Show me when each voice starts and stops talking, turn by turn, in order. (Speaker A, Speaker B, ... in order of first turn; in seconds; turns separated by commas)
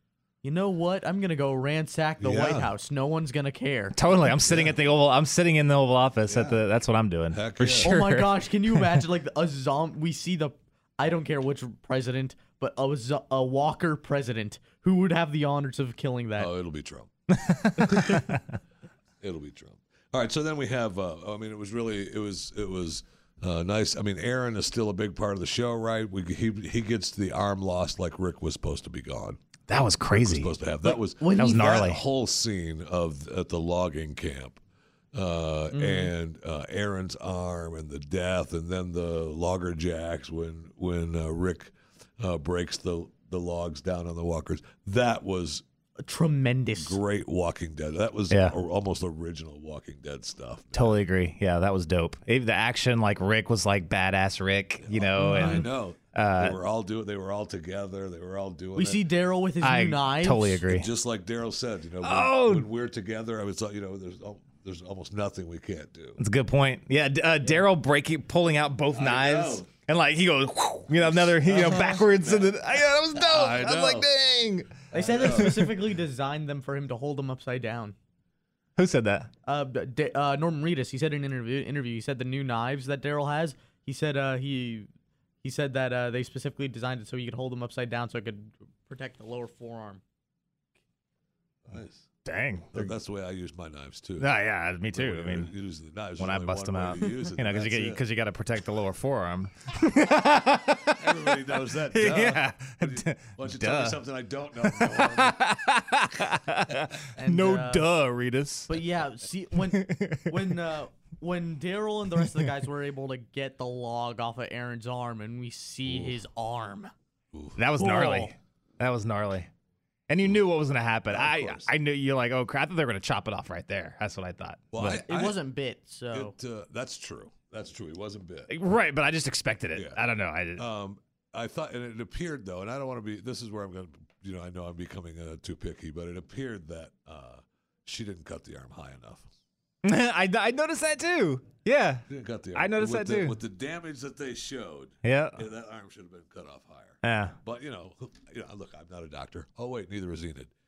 Speaker A: 0.4-4.0, Speaker B: 2.2-2.7, Speaker C: 4.0-9.0, Speaker B: 4.5-4.8, Speaker B: 6.3-6.6, Speaker B: 7.3-7.9, Speaker A: 7.8-16.5, Speaker B: 16.4-17.1, Speaker C: 17.3-18.4, Speaker B: 17.8-18.2, Speaker B: 19.2-29.4, Speaker C: 29.7-30.5, Speaker B: 30.1-34.6, Speaker A: 30.9-31.8, Speaker C: 31.4-32.0, Speaker B: 35.1-45.6, Speaker A: 35.7-36.1, Speaker A: 46.0-47.0, Speaker B: 46.8-51.0, Speaker C: 50.8-56.6, Speaker B: 54.8-59.0, Speaker A: 55.2-55.7, Speaker A: 58.8-60.6, Speaker C: 59.6-60.9, Speaker B: 60.7-66.2, Speaker C: 62.0-62.7, Speaker C: 66.2-75.7, Speaker B: 68.9-69.7, Speaker B: 70.9-72.5, Speaker B: 73.2-74.1, Speaker A: 74.9-78.0, Speaker B: 74.9-75.7, Speaker C: 78.8-79.3, Speaker A: 79.5-84.9, Speaker A: 85.4-90.0, Speaker B: 91.7-92.1, Speaker C: 92.2-92.9, Speaker B: 92.7-94.3, Speaker C: 94.2-95.5, Speaker B: 94.9-98.0, Speaker C: 96.2-104.0, Speaker B: 100.9-105.4, Speaker C: 104.6-108.8, Speaker A: 107.2-107.8, Speaker A: 108.7-116.9, Speaker C: 109.7-110.5, Speaker B: 115.9-116.1, Speaker B: 117.3-117.6, Speaker C: 117.6-119.5, Speaker A: 117.8-118.3, Speaker C: 120.1-125.0, Speaker B: 121.1-121.7, Speaker B: 124.7-125.4, Speaker A: 124.8-126.3, Speaker B: 126.1-128.5, Speaker C: 128.5-130.6, Speaker B: 129.8-130.0, Speaker B: 130.6-139.3, Speaker C: 139.8-143.3, Speaker B: 142.1-150.5, Speaker C: 145.0-145.4, Speaker C: 147.0-147.4